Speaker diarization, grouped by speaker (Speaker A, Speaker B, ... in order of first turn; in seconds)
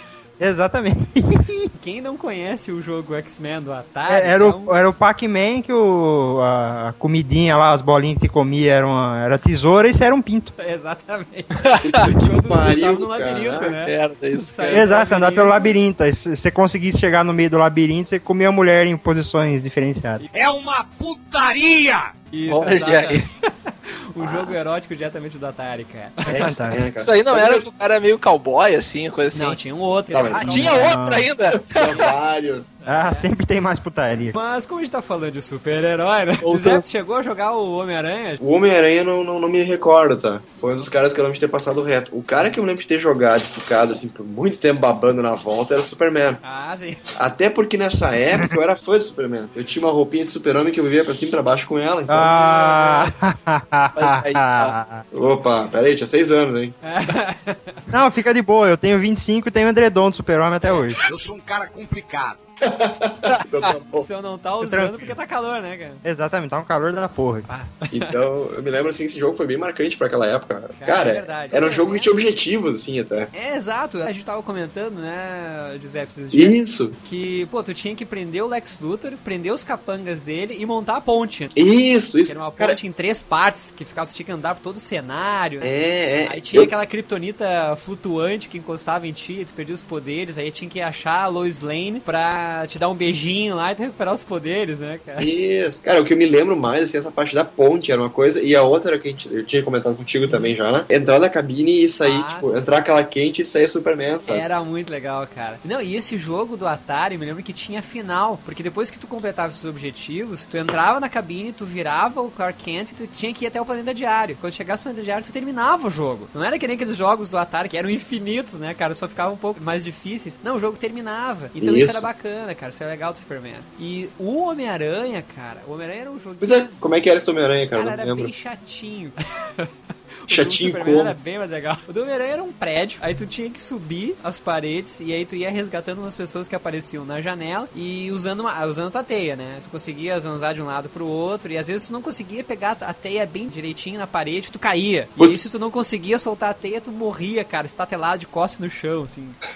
Speaker A: 0.4-1.7, 4.1-10.5, 14.7-20.2, 26.3-26.8, 30.4-31.3, 32.9-34.3, 52.1-55.0, 57.9-61.0, 64.6-65.2, 66.0-67.5
Speaker B: 1.8-4.7, 10.6-15.8, 22.3-26.3, 29.3-30.9, 32.8-33.3, 34.3-38.4, 40.6-40.9, 46.4-47.0, 52.2-53.1, 56.8-57.8, 63.9-66.0, 67.5-68.1, 70.8-72.1, 73.3-81.5, 82.3-85.7, 86.2-95.3, 102.0-102.5, 104.2-126.8, 127.7-129.7, 130.2-149.4
Speaker C: 11.8-13.8, 24.2-24.5, 26.3-27.6, 30.1-30.8, 31.5-32.7, 36.4-36.8, 38.4-46.4, 47.1-52.3, 55.1-56.8, 62.6-64.1, 67.9-73.3, 76.3-77.0, 81.5-82.8, 85.6-86.7, 95.2-104.4, 121.6-122.0, 126.4-128.3, 130.3-131.1, 145.2-145.5
Speaker D: 13.8-14.8, 22.5-23.2, 27.0-29.6, 30.3-32.0, 53.9-54.7
Speaker E: 20.3-22.1, 61.0-62.4